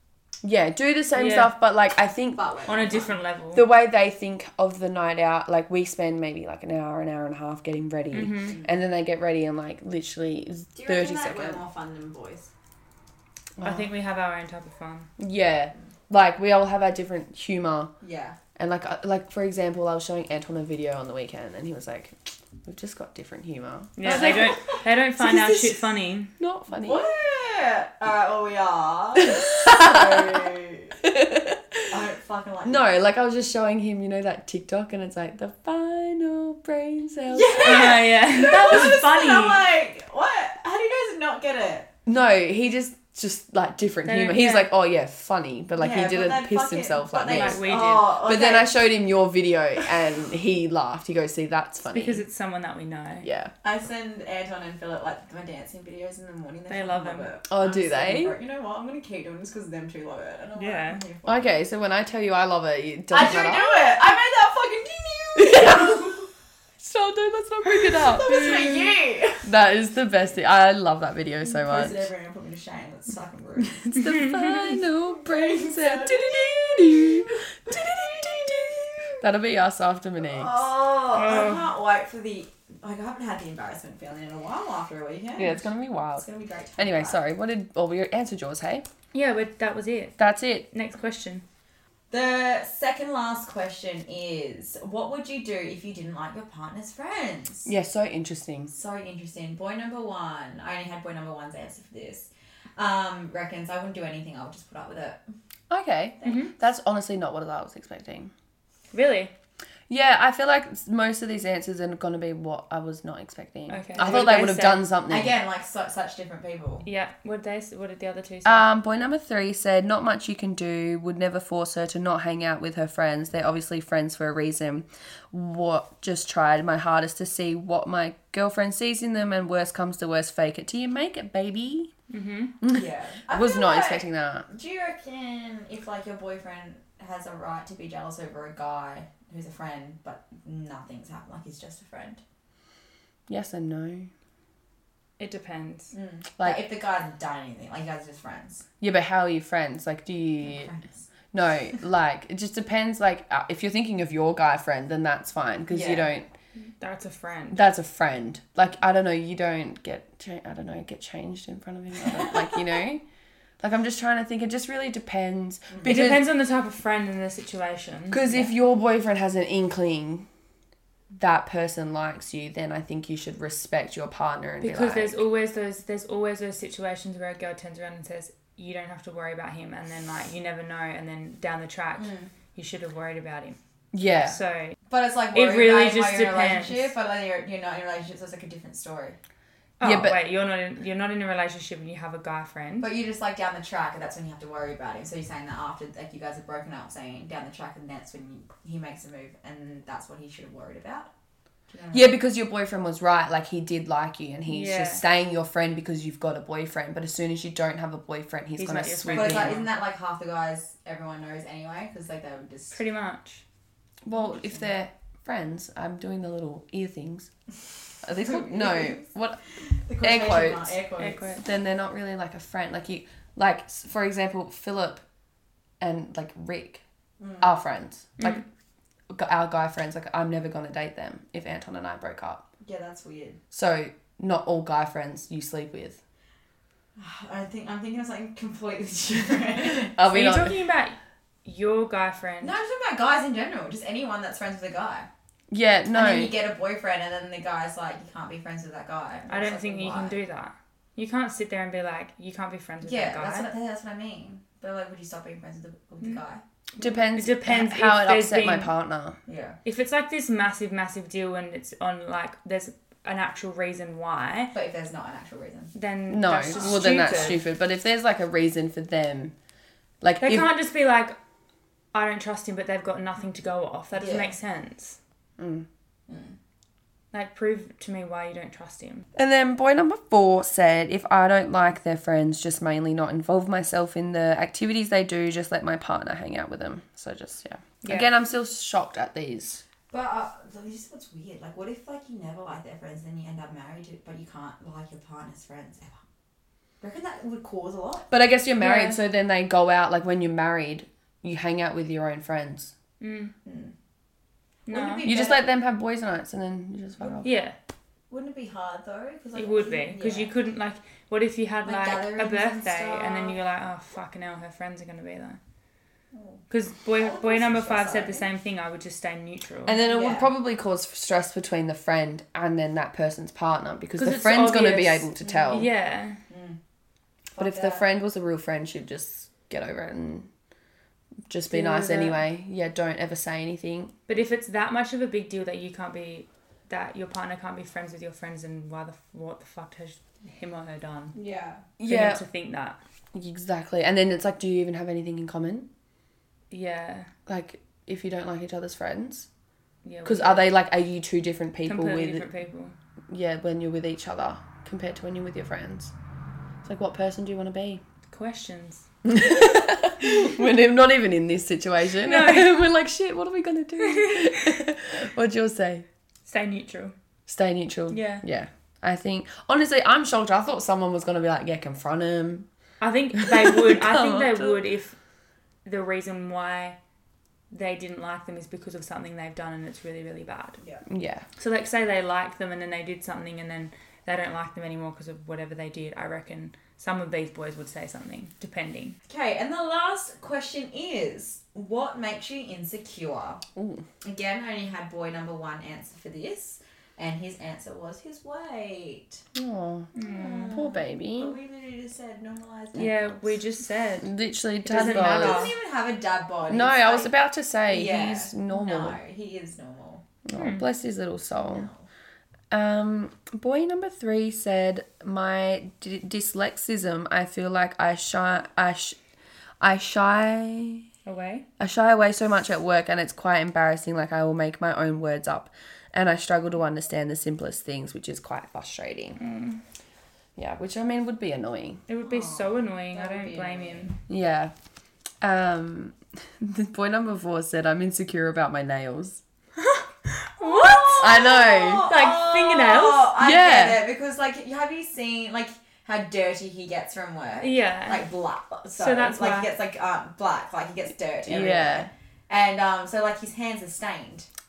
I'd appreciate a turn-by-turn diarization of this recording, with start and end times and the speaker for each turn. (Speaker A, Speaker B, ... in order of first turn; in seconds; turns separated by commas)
Speaker A: 0.4-2.4, Speaker B: 1.1-1.5, Speaker C: 2.4-3.2, Speaker B: 2.7-3.7, Speaker A: 3.5-11.6, Speaker B: 8.1-8.6, Speaker C: 10.8-12.5, Speaker A: 13.6-13.9, Speaker B: 13.6-15.1, Speaker A: 15.2-17.9, Speaker C: 18.0-18.4, Speaker A: 18.6-24.6, Speaker B: 24.0-26.3, Speaker C: 24.0-24.8, Speaker A: 25.2-25.8, Speaker A: 26.4-27.1, Speaker C: 26.8-31.0, Speaker A: 29.3-30.1, Speaker A: 31.0-31.8, Speaker C: 31.9-32.8, Speaker A: 32.6-38.0, Speaker C: 37.3-41.9, Speaker B: 37.6-39.7, Speaker A: 42.1-52.2, Speaker B: 44.0-44.7, Speaker C: 45.8-48.8, Speaker B: 47.3-48.1, Speaker B: 51.9-53.3, Speaker A: 53.2-53.5, Speaker C: 53.6-61.5, Speaker B: 56.7-57.3, Speaker A: 57.5-58.4, Speaker B: 60.6-61.0, Speaker A: 61.2-63.7, Speaker C: 63.1-66.3, Speaker A: 65.4-66.1, Speaker A: 66.8-68.8, Speaker C: 68.0-69.5, Speaker A: 69.4-72.0, Speaker C: 71.4-74.3, Speaker A: 73.9-80.7, Speaker C: 75.2-79.3, Speaker C: 80.2-87.2, Speaker B: 81.1-81.7, Speaker A: 85.4-86.3, Speaker A: 86.8-88.9, Speaker B: 89.1-90.2, Speaker A: 90.2-90.7, Speaker B: 90.7-91.4, Speaker C: 92.1-97.7, Speaker A: 97.7-98.7, Speaker C: 98.7-105.2, Speaker A: 105.7-108.3, Speaker C: 106.2-106.5, Speaker B: 106.2-106.5, Speaker B: 108.9-109.3, Speaker A: 109.9-115.3, Speaker B: 113.7-114.9, Speaker C: 114.0-114.3, Speaker C: 115.1-116.9, Speaker B: 116.8-118.7, Speaker A: 118.5-131.9, Speaker B: 132.1-132.5, Speaker A: 132.6-134.5, Speaker C: 132.7-142.2, Speaker A: 143.3-144.1, Speaker B: 145.2-145.9, Speaker C: 145.9-148.7, Speaker A: 148.8-150.7, Speaker C: 150.4-151.0, Speaker A: 151.3-156.3, Speaker C: 155.7-156.1, Speaker B: 156.8-157.6, Speaker A: 157.5-163.0, Speaker A: 163.6-166.3, Speaker C: 165.7-166.0, Speaker B: 165.8-168.5, Speaker A: 168.1-170.3, Speaker A: 171.2-175.2, Speaker B: 174.6-183.6, Speaker C: 182.0-182.3, Speaker A: 183.9-184.4, Speaker B: 184.2-184.8, Speaker C: 184.9-189.2, Speaker B: 185.3-186.9, Speaker B: 189.8-192.9, Speaker A: 189.8-190.2, Speaker C: 192.8-201.1, Speaker C: 201.7-202.1, Speaker A: 201.9-209.7, Speaker B: 204.5-205.0, Speaker B: 208.6-209.7, Speaker C: 209.1-212.8, Speaker B: 212.7-213.4, Speaker A: 214.1-217.3, Speaker A: 218.0-219.4, Speaker C: 218.2-219.0, Speaker C: 219.7-221.4, Speaker A: 220.0-220.8, Speaker B: 221.0-221.4, Speaker A: 221.4-225.0, Speaker A: 225.8-226.8, Speaker C: 227.2-227.6, Speaker A: 227.4-228.4, Speaker B: 228.2-228.4, Speaker A: 229.1-232.4, Speaker C: 232.6-233.4, Speaker A: 233.5-236.0, Speaker C: 237.0-239.9, Speaker A: 239.8-240.6, Speaker B: 240.0-242.6, Speaker C: 242.4-245.1, Speaker A: 245.5-246.3, Speaker C: 245.9-250.2, Speaker B: 249.3-253.5, Speaker C: 252.8-256.4, Speaker A: 256.8-259.2, Speaker B: 256.8-258.7, Speaker C: 259.3-259.6, Speaker B: 259.6-264.5, Speaker C: 264.5-265.7, Speaker B: 265.8-267.4, Speaker A: 266.1-269.3, Speaker C: 266.5-267.4, Speaker A: 270.0-270.5, Speaker B: 270.2-271.2, Speaker B: 271.9-275.0, Speaker C: 274.0-274.3, Speaker A: 275.4-275.7, Speaker C: 276.1-276.4, Speaker B: 277.1-279.1, Speaker A: 279.2-289.6, Speaker B: 287.8-288.1, Speaker C: 289.9-296.0, Speaker C: 296.8-298.1, Speaker A: 298.1-302.7, Speaker B: 298.6-299.0, Speaker B: 303.0-303.3, Speaker C: 303.4-303.7, Speaker B: 304.7-305.1, Speaker C: 304.7-305.5, Speaker A: 305.1-307.3, Speaker B: 307.2-307.6, Speaker C: 308.1-310.3, Speaker B: 309.4-315.4, Speaker C: 311.6-313.4, Speaker C: 316.1-316.4, Speaker B: 316.5-319.8, Speaker C: 317.0-318.3, Speaker A: 319.7-325.7, Speaker C: 319.9-320.3, Speaker B: 324.0-326.2, Speaker C: 326.3-326.6, Speaker C: 327.3-327.9, Speaker A: 327.4-330.3, Speaker A: 331.3-333.9, Speaker B: 331.5-332.2, Speaker B: 334.1-341.1, Speaker C: 341.1-341.6, Speaker A: 341.8-342.2, Speaker B: 341.9-342.8, Speaker A: 343.1-345.7, Speaker B: 346.5-347.1, Speaker A: 347.3-349.3, Speaker B: 349.8-350.5, Speaker A: 350.1-352.3, Speaker B: 351.7-352.8, Speaker A: 353.1-355.9, Speaker A: 356.6-357.8, Speaker B: 358.1-358.9, Speaker A: 359.1-365.9, Speaker B: 362.0-362.6, Speaker B: 363.8-364.5, Speaker B: 366.3-366.9, Speaker A: 367.3-372.5, Speaker B: 367.9-368.2, Speaker B: 372.8-375.0, Speaker A: 373.2-374.6, Speaker B: 375.6-376.8, Speaker B: 377.5-380.6, Speaker A: 380.9-381.2, Speaker B: 381.4-389.0, Speaker C: 389.1-393.4, Speaker A: 393.6-393.9, Speaker C: 394.0-399.2, Speaker A: 399.3-399.9, Speaker B: 399.9-400.6, Speaker C: 400.0-403.4, Speaker A: 400.5-401.4, Speaker B: 402.8-405.6, Speaker A: 404.0-405.5, Speaker C: 404.7-407.1, Speaker A: 406.5-409.0, Speaker C: 407.7-410.1, Speaker A: 410.3-411.7, Speaker B: 410.3-410.7, Speaker C: 411.4-411.9, Speaker A: 412.5-419.0, Speaker A: 419.6-420.9, Speaker B: 421.1-421.5, Speaker A: 421.6-429.2, Speaker B: 429.2-429.6, Speaker A: 430.4-431.8, Speaker B: 431.9-433.9, Speaker C: 432.0-434.0, Speaker A: 434.1-434.5, Speaker A: 435.2-439.2, Speaker B: 439.6-443.1, Speaker C: 440.4-454.3, Speaker A: 441.0-441.9, Speaker A: 443.2-443.9, Speaker B: 447.4-448.1, Speaker B: 448.7-449.5, Speaker A: 451.2-451.9